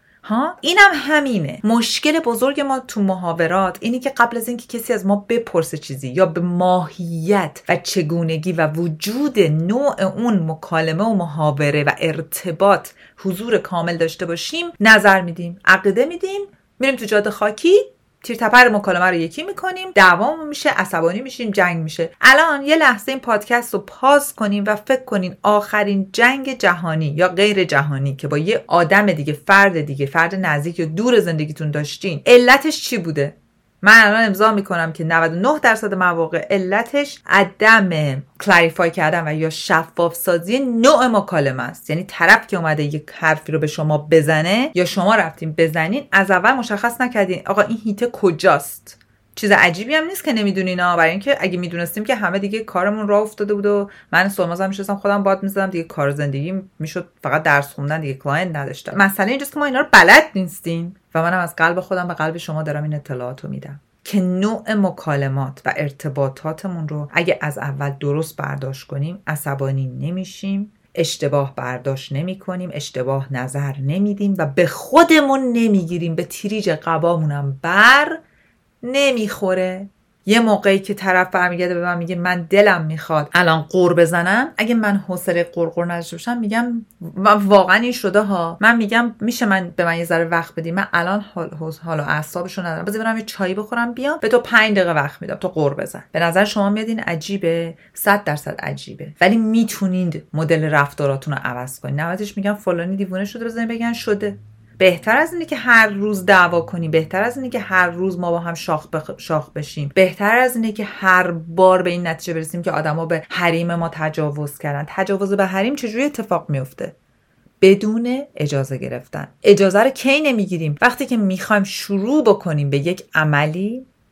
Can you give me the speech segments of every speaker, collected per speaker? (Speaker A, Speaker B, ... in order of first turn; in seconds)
Speaker A: 0.2-78.2, 78.8-117.0, 117.6-123.9